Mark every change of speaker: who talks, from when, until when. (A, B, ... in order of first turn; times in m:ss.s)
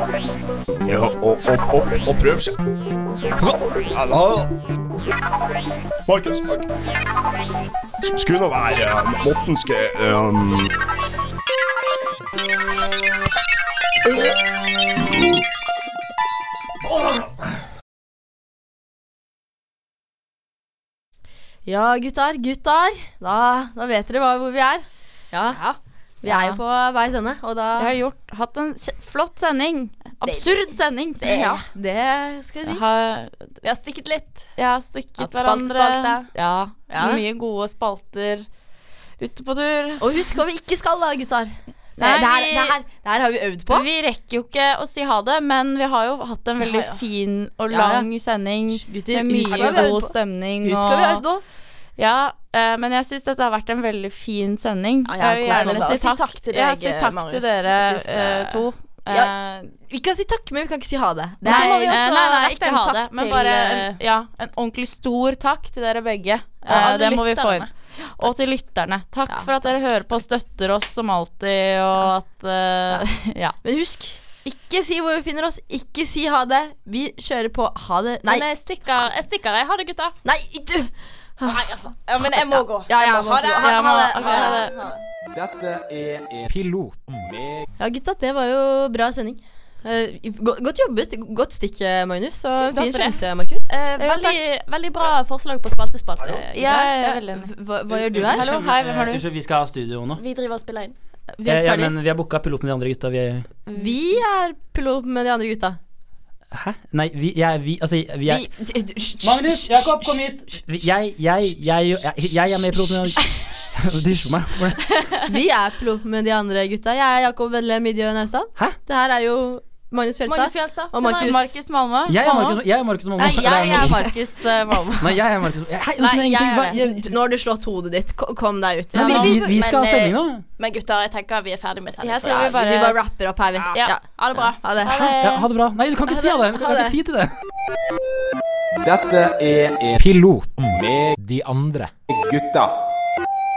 0:00.8-0:02.6 A
0:03.4-0:04.6 A
0:06.1-0:06.7 A
0:08.0-0:10.7 A
0:14.0-0:14.4 B
0:21.6-0:25.6 B
0:25.5-0:25.8 C
0:26.2-0:26.6 D
0:26.2-0:27.9 B
0:27.8-0:31.3 D
0:31.2-0:31.6 C
0:31.2-0:32.8 B
0:32.7-0:33.6 D
0:33.6-0:34.5 C
0:34.6-0:38.5 D
0:35.2-0:36.3 C
0:36.9-0:37.2 B
0:39.2-0:40.3 D
0:40.0-0:43.9 B
0:42.0-0:42.8 D
0:43.7-0:51.2 D
0:47.7-0:48.1 B
0:48.9-0:50.1 B
0:49.5-0:49.9 C
0:50.6-0:51.4 B
0:52.0-0:59.7 D
0:55.1-0:56.0 B
0:55.4-0:58.7 C
0:59.1-1:02.0 B
1:01.4-1:04.0 C
1:01.4-1:13.6 D
1:06.6-1:07.7 C
1:13.6-1:18.5 B
1:18.3-1:20.2 C
1:20.2-1:24.8 B
1:21.4-1:24.9 C
1:23.6-1:24.7 D
1:25.3-1:26.5 E
1:26.5-1:27.0 F
1:27.1-1:27.7 E
1:27.8-1:33.7 B
1:32.6-1:37.0 C
1:34.0-1:34.4 D
1:36.5-1:37.5 D
1:37.0-1:38.6 B
1:38.1-1:40.2 G
1:38.1-1:39.2 D
1:40.1-1:41.0 C
1:41.3-1:41.9 B
1:41.4-1:43.6 G
1:43.7-1:45.8 B
1:46.5-1:48.5 G
1:48.3-1:50.0 B
1:49.2-1:55.0 G
1:55.3-2:01.5 B
2:00.3-2:00.9 C
2:01.0-2:02.6 D
2:02.1-2:04.2 G
2:03.2-2:05.2 D
2:05.0-2:07.1 G
2:06.0-2:06.8 D
2:06.8-2:10.1 B
2:08.9-2:09.5 D
2:09.0-2:10.4 G
2:10.6-2:12.5 C
2:12.0-2:13.0 D
2:12.2-2:14.9 B
2:13.7-2:14.6 C
2:14.8-2:15.5 D
2:14.9-2:17.3 G
2:18.8-2:20.0 E
2:20.0-2:21.9 F
2:20.6-2:21.2 E
2:22.1-2:22.8 E